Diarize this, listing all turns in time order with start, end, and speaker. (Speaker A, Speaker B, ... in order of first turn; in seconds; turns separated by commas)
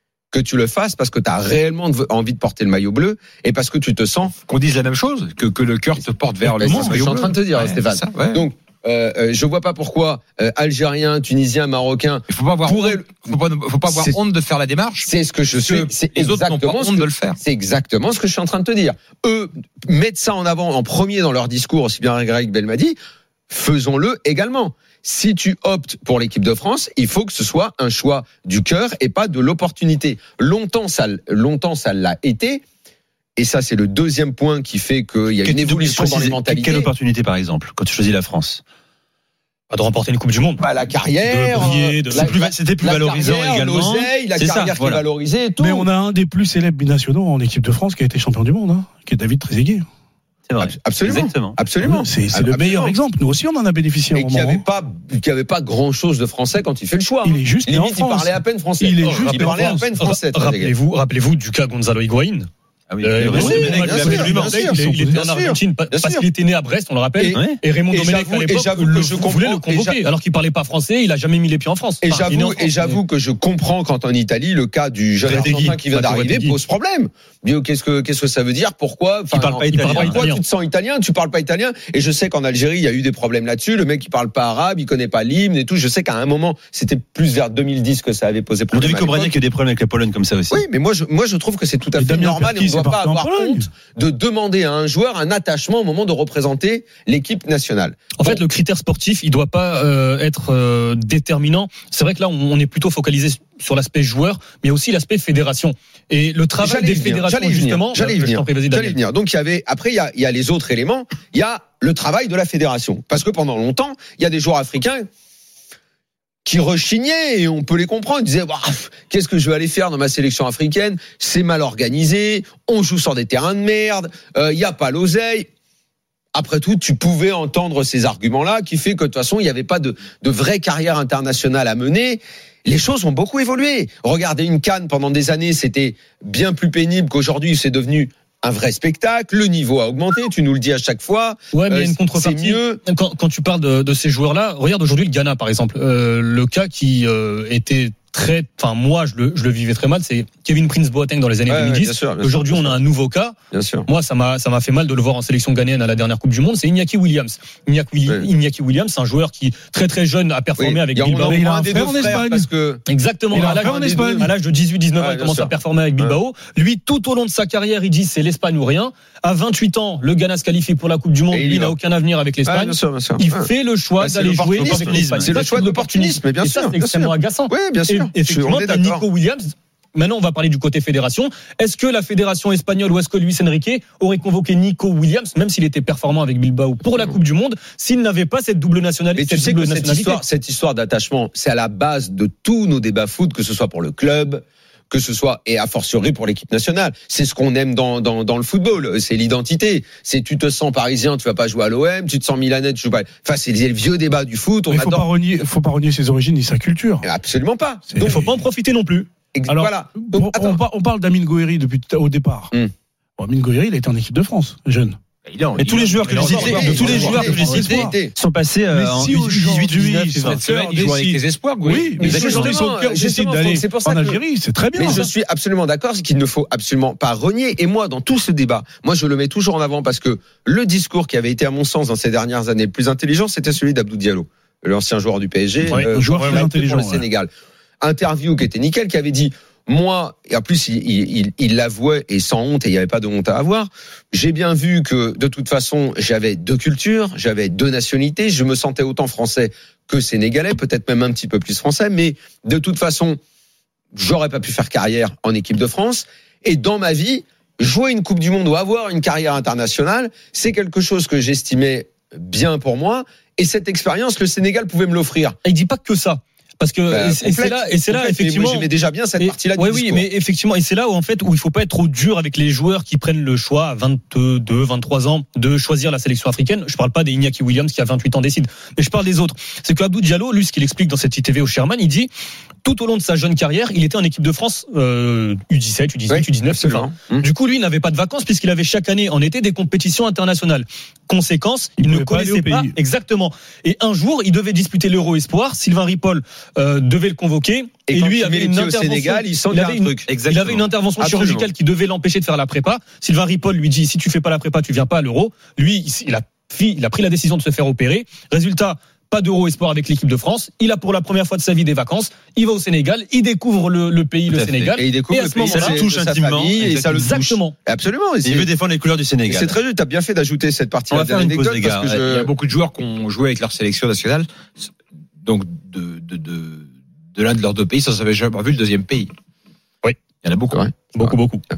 Speaker A: 0.3-4.3, Speaker B: 4.4-8.4, Speaker A: 6.0-13.0, Speaker B: 12.3-17.4, Speaker A: 13.9-14.2, Speaker A: 15.0-22.9, Speaker A: 23.5-32.6, Speaker A: 33.4-36.9, Speaker C: 35.4-38.6, Speaker D: 39.7-40.6, Speaker A: 40.6-45.9, Speaker D: 41.2-42.3, Speaker C: 42.1-45.0, Speaker E: 45.6-49.8, Speaker C: 50.5-51.6, Speaker A: 50.6-53.0, Speaker E: 51.8-54.6, Speaker A: 54.1-60.7, Speaker E: 57.2-59.9, Speaker D: 59.9-62.5, Speaker C: 62.9-64.5, Speaker D: 63.0-73.0, Speaker A: 63.2-66.2, Speaker E: 63.4-65.2, Speaker A: 67.2-70.0, Speaker C: 67.3-67.6, Speaker A: 72.0-89.3, Speaker C: 75.2-75.8, Speaker D: 75.9-76.5, Speaker C: 79.3-80.2, Speaker D: 79.7-80.4, Speaker C: 88.7-90.6, Speaker A: 90.5-98.4, Speaker E: 92.0-93.7, Speaker D: 98.2-109.0, Speaker A: 106.6-115.0, Speaker A: 116.5-125.5, Speaker A: 126.3-142.8, Speaker D: 141.5-153.3, Speaker A: 151.4-152.8, Speaker A: 153.5-153.9, Speaker D: 153.8-161.5, Speaker A: 160.6-164.3, Speaker E: 161.2-162.5, Speaker D: 162.9-190.2, Speaker E: 163.3-164.3, Speaker A: 165.0-166.2, Speaker A: 171.3-171.7, Speaker A: 172.4-179.0, Speaker C: 174.6-175.4, Speaker A: 189.1-205.0, Speaker E: 204.7-207.1, Speaker A: 207.0-208.2, Speaker E: 207.9-208.4, Speaker D: 208.0-209.1, Speaker A: 209.3-210.6, Speaker E: 209.5-212.5, Speaker E: 213.2-214.9, Speaker B: 215.2-217.5, Speaker C: 215.5-220.3, Speaker E: 216.1-217.9, Speaker A: 216.3-218.1, Speaker E: 218.7-225.1, Speaker B: 220.2-222.6, Speaker A: 222.0-224.2, Speaker A: 224.8-237.3, Speaker E: 235.6-237.1, Speaker D: 235.7-236.4, Speaker A: 237.8-253.2, Speaker A: 253.9-265.4, Speaker D: 265.4-282.1, Speaker A: 266.9-270.1, Speaker D: 282.6-315.8, Speaker A: 286.1-287.3, Speaker E: 291.8-292.7, Speaker A: 297.9-300.1, Speaker C: 300.1-300.6, Speaker A: 301.0-301.5, Speaker C: 314.3-314.8, Speaker A: 314.8-318.5, Speaker C: 315.5-317.1, Speaker D: 316.6-317.5, Speaker C: 318.2-319.6, Speaker A: 319.2-322.3, Speaker C: 320.9-322.0, Speaker B: 321.9-324.7, Speaker B: 325.2-329.1, Speaker B: 330.2-330.7, Speaker D: 330.9-331.4